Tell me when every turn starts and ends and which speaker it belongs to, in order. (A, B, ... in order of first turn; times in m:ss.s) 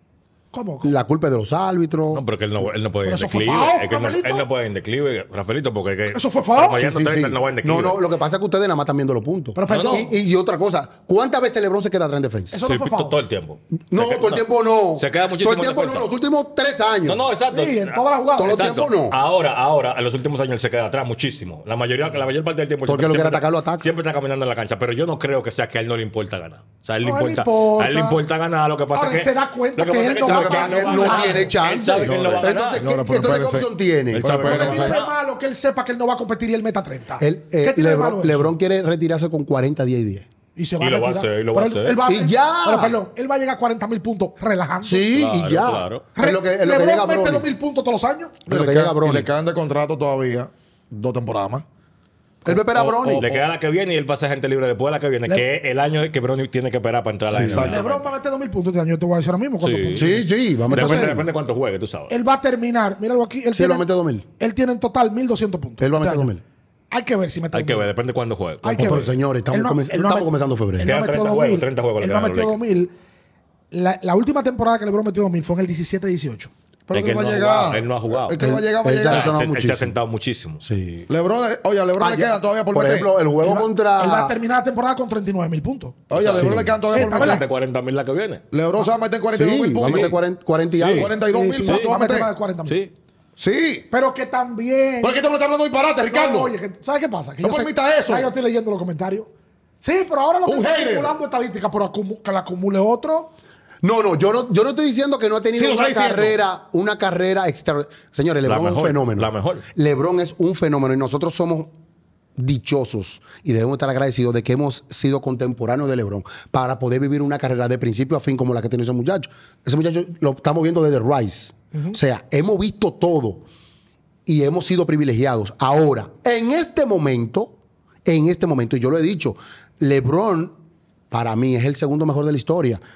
0:00.5-0:00.9 A
0:00.8-0:02.2 B
0:02.1-0:08.0 C
0:03.0-0:04.5 A
0:06.1-0:06.8 A
0:06.8-0:12.6 B
0:09.6-0:10.1 A
0:09.7-0:10.1 C
0:12.5-0:13.2 A
0:12.7-0:16.1 C
0:13.9-0:17.2 B
0:17.0-0:32.8 C
0:17.5-0:18.9 A
0:18.4-0:19.2 B
0:22.9-0:23.9 B
0:27.0-0:28.2 A
0:28.9-0:31.6 A
0:30.2-0:34.3 B
0:32.0-0:35.0 D
0:34.1-0:35.1 C
0:34.4-0:38.6 A
0:37.2-0:40.3 B
0:40.6-0:45.1 A
0:40.8-0:42.0 C
0:42.1-0:43.0 B
0:44.8-0:47.5 B
0:45.1-0:46.0 C
0:46.2-0:48.4 A
0:48.5-0:49.3 B
0:48.5-0:51.6 D
0:52.4-0:53.2 B
0:52.4-0:53.5 D
0:53.0-0:58.0 C
0:57.3-0:57.7 B
0:57.3-0:57.8 D
0:57.6-1:01.3 A
0:59.6-1:02.1 C
1:00.0-1:01.2 B
1:02.1-1:03.9 A
1:03.6-1:04.3 B
1:04.4-1:06.3 A
1:05.8-1:06.4 B
1:06.9-1:07.9 A
1:07.5-1:09.1 C
1:08.6-1:12.9 A
1:08.8-1:10.9 B
1:10.8-1:12.6 C
1:13.7-1:16.5 A
1:16.9-1:19.4 D
1:16.9-1:18.4 C
1:18.4-1:19.9 B
1:18.9-1:20.6 C
1:20.6-1:21.1 B
1:21.1-1:23.1 D
1:22.0-1:24.3 B
1:23.4-1:26.0 A
1:26.1-1:27.4 D
1:26.1-1:28.4 C
1:26.4-1:26.7 B
1:26.9-1:27.4 A
1:28.5-1:30.2 D
1:29.3-1:31.1 B
1:29.8-1:30.2 C
1:30.8-1:31.1 C
1:30.9-1:32.3 D
1:31.2-1:32.8 A
1:31.6-1:31.9 C
1:32.7-1:32.9 C
1:33.4-1:33.9 D
1:33.9-1:35.2 A
1:35.0-1:36.5 D
1:36.1-1:39.3 A
1:37.4-1:38.3 D
1:39.8-1:43.3 A
1:40.5-1:41.2 D
1:43.8-1:51.7 B
1:45.5-1:46.4 D
1:48.4-1:49.7 C
1:52.4-2:03.5 B
2:04.3-2:10.6 B
2:11.1-2:12.8 B